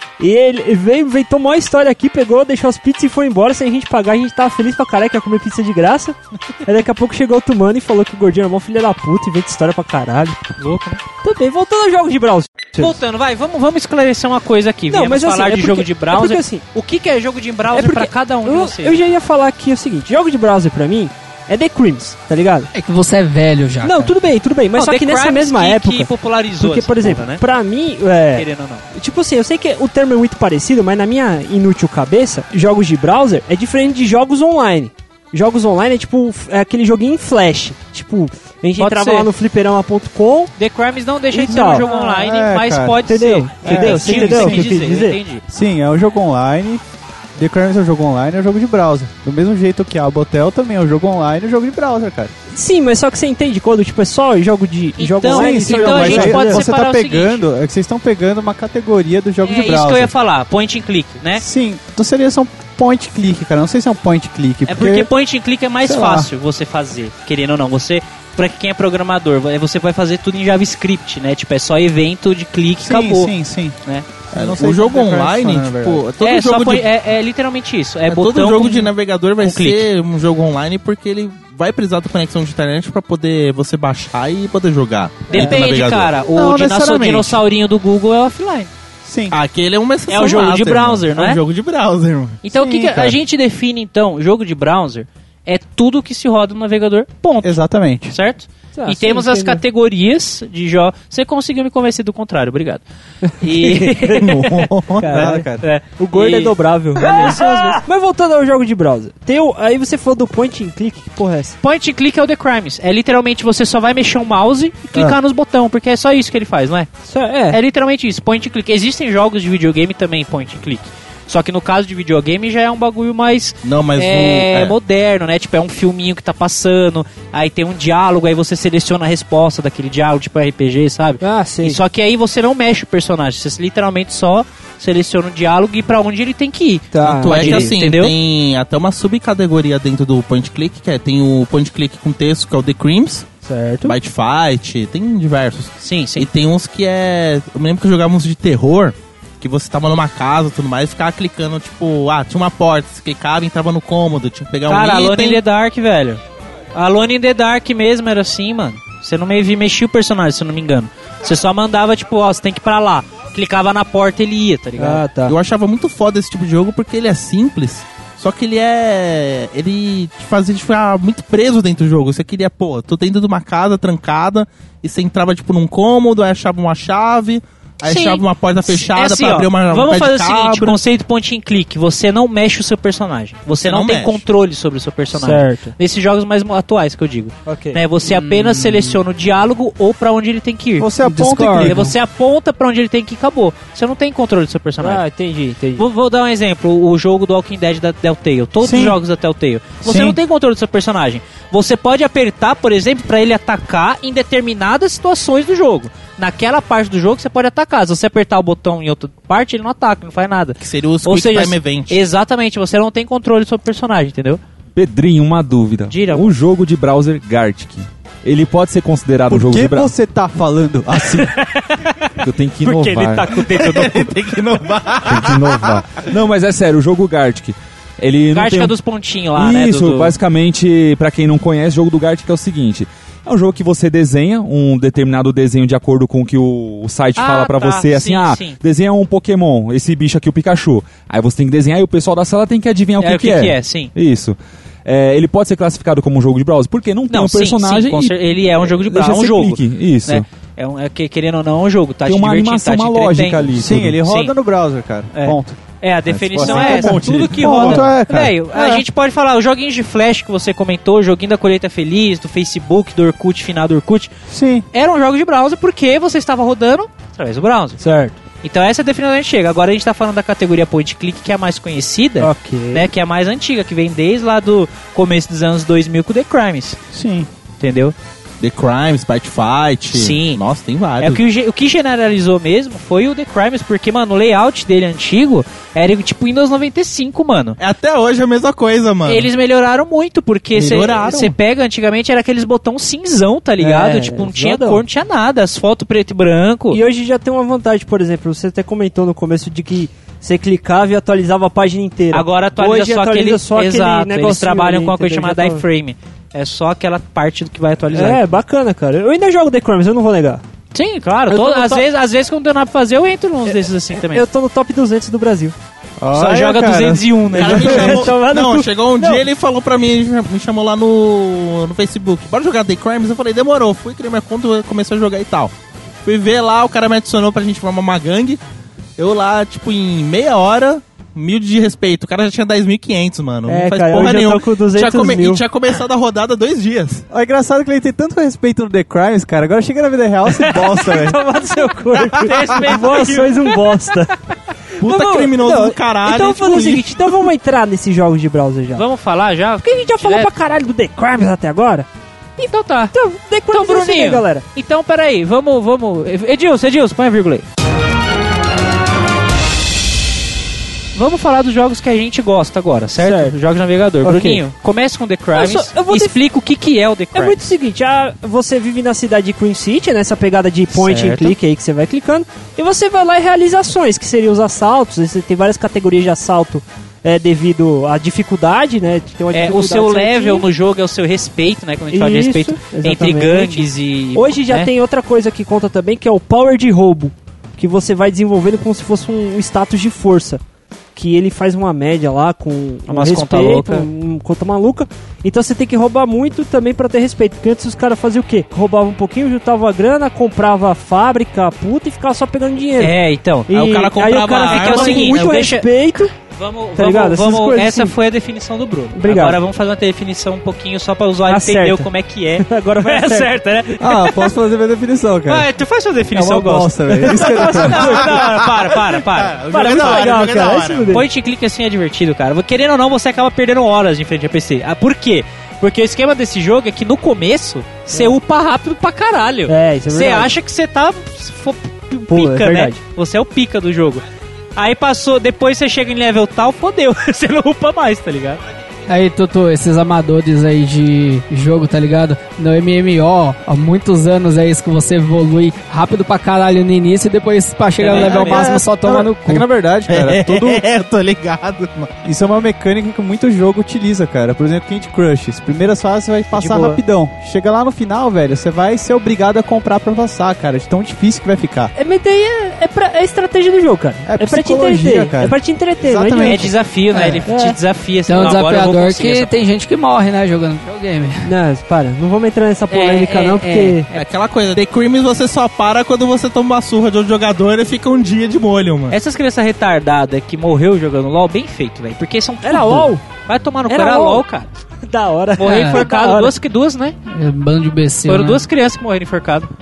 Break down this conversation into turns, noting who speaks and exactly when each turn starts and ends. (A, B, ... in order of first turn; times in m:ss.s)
0:00.2-0:10.5 A
0:10.6-0:11.0 B
0:11.2-0:13.0 A
0:12.8-0:19.1 B
0:14.9-0:16.6 A
0:17.7-0:22.7 A
0:22.7-0:24.1 C
0:23.8-0:40.5 A
0:24.7-0:27.4 B
0:28.3-0:28.8 B
0:38.8-0:39.3 B
0:40.6-0:45.4 B
0:41.3-0:41.8 A
0:41.5-0:43.0 D
0:43.0-0:45.2 A
0:43.6-0:44.8 D
0:45.5-0:46.8 D
0:47.4-0:52.3 D
0:52.5-0:56.6 A
0:55.0-0:57.5 B
0:55.2-1:00.1 D
0:59.4-1:01.4 B
1:01.3-1:05.1 D
1:04.6-1:13.3 B
1:05.8-1:06.3 D
1:12.8-1:13.8 D
1:14.3-1:16.0 D
1:14.3-1:16.9 E
1:16.2-1:19.8 B
1:18.1-1:26.1 E
1:25.3-1:28.7 B
1:26.3-1:27.4 D
1:29.0-1:29.4 D
1:29.3-1:32.4 E
1:30.1-1:31.4 B
1:32.4-1:47.7 B
1:32.5-1:33.2 D
1:37.4-1:38.1 D
1:38.8-1:39.6 A
1:43.2-1:51.6 A
1:44.4-1:45.6 D
1:51.6-1:56.9 B
1:57.1-1:57.6 A
1:57.5-2:18.1 B
2:03.6-2:04.8 E
2:11.2-2:11.8 A
2:16.9-2:17.7 A
2:17.0-2:23.3 E
2:23.4-2:24.0 A
2:23.8-2:35.4 E
2:25.8-2:26.3 B
2:34.7-2:36.2 B
2:36.7-2:45.1 B
2:44.8-2:45.3 A
2:45.2-3:00.8 E
2:57.8-3:10.9 B
3:03.6-3:04.2 E
3:05.1-3:05.7 A
3:07.4-3:07.8 A
3:08.4-3:08.9 C
3:10.8-3:11.9 D
3:11.0-3:11.8 C
3:11.6-3:15.0 B
3:14.8-3:15.9 A
3:15.8-3:34.4 B
3:18.6-3:19.0 D
3:19.9-3:20.2 D
3:30.6-3:32.0 E
3:34.8-3:39.9 F
3:35.9-3:36.3 B
3:39.3-3:41.3 D
3:41.2-3:42.1 B
3:42.2-3:43.7 F
3:42.6-3:44.1 B
3:43.3-3:46.0 E
3:45.0-3:48.7 F
3:48.3-3:50.1 B
3:49.4-4:10.2 F
3:57.2-3:58.6 B
4:03.0-4:03.9 B
4:07.1-4:14.3 B
4:12.1-4:14.0 F
4:13.6-4:18.8 D
4:15.1-4:24.1 B
4:16.4-4:17.7 F
4:24.3-4:24.6 D
4:24.7-4:27.8 B
4:27.8-4:28.2 A
4:28.4-4:36.8 B
4:32.2-4:32.9 A
4:36.9-4:37.3 D
4:37.6-4:37.9 B
4:38.4-4:41.2 E
4:39.9-4:40.4 B
4:41.0-4:47.6 B
4:47.6-4:49.3 E
4:49.0-4:56.8 B
4:50.5-4:51.3 E
4:53.6-4:54.8 A
4:56.7-5:05.6 A
5:02.1-5:08.2 B
5:07.9-5:10.4 A
5:10.7-5:14.2 B
5:11.3-5:11.8 A
5:14.0-5:15.5 A
5:16.0-5:17.5 D
5:16.1-5:18.1 B
5:17.3-5:25.5 E
5:17.5-5:19.2 A
5:26.0-5:28.4 E
5:29.0-5:37.0 E
5:33.5-5:35.4 A
5:37.1-5:41.2 D
5:40.5-5:44.1 A
5:42.1-5:43.6 B
5:44.8-5:47.1 E
5:44.8-5:48.8 A
5:48.7-5:50.3 B
5:49.6-5:51.9 A
5:52.4-5:52.9 B
5:52.9-5:54.4 A
5:53.5-5:57.4 B
6:00.9-6:07.4 B
6:03.0-6:03.3 A
6:04.0-6:04.4 A
6:05.3-6:06.2 A
6:07.1-6:20.4 A
6:10.7-6:11.3 B
6:19.3-6:24.7 B
6:21.9-6:30.4 A
6:30.9-6:42.9 A
6:32.9-6:33.9 B
6:42.8-6:43.5 B
6:43.5-6:46.1 A
6:43.5-6:45.4 E
6:44.5-6:54.3 B
6:46.8-6:47.9 A
6:48.9-6:49.4 A
6:51.3-6:51.9 A
6:52.4-6:53.3 A
6:53.8-6:55.5 D
6:55.3-7:00.2 B
6:56.1-6:58.2 D
6:57.0-6:58.2 A
6:57.8-7:01.0 E
6:59.5-7:01.0 A
7:00.9-7:14.0 B
7:07.9-7:08.1 A
7:09.5-7:10.3 A
7:12.1-7:12.8 A
7:14.6-7:18.4 B
7:18.9-7:29.4 C
7:27.8-7:28.4 B
7:27.9-7:30.6 D
7:27.9-7:28.4 E
7:29.9-7:32.0 E
7:32.0-7:41.7 D
7:36.4-7:36.7 A
7:41.8-7:46.5 A
7:44.0-7:46.5 D
7:46.2-7:49.4 B
7:46.9-7:47.2 C
7:47.3-7:47.6 A
7:48.1-7:51.3 C
7:51.2-7:53.9 A
7:52.7-7:53.9 B
7:53.9-7:59.0 E
7:58.9-8:04.5 B
8:02.4-8:03.0 A
8:03.7-8:04.2 A
8:04.8-8:06.3 A
8:05.4-8:07.0 B
8:05.4-8:05.8 C
8:07.1-8:08.4 C
8:08.1-8:09.5 B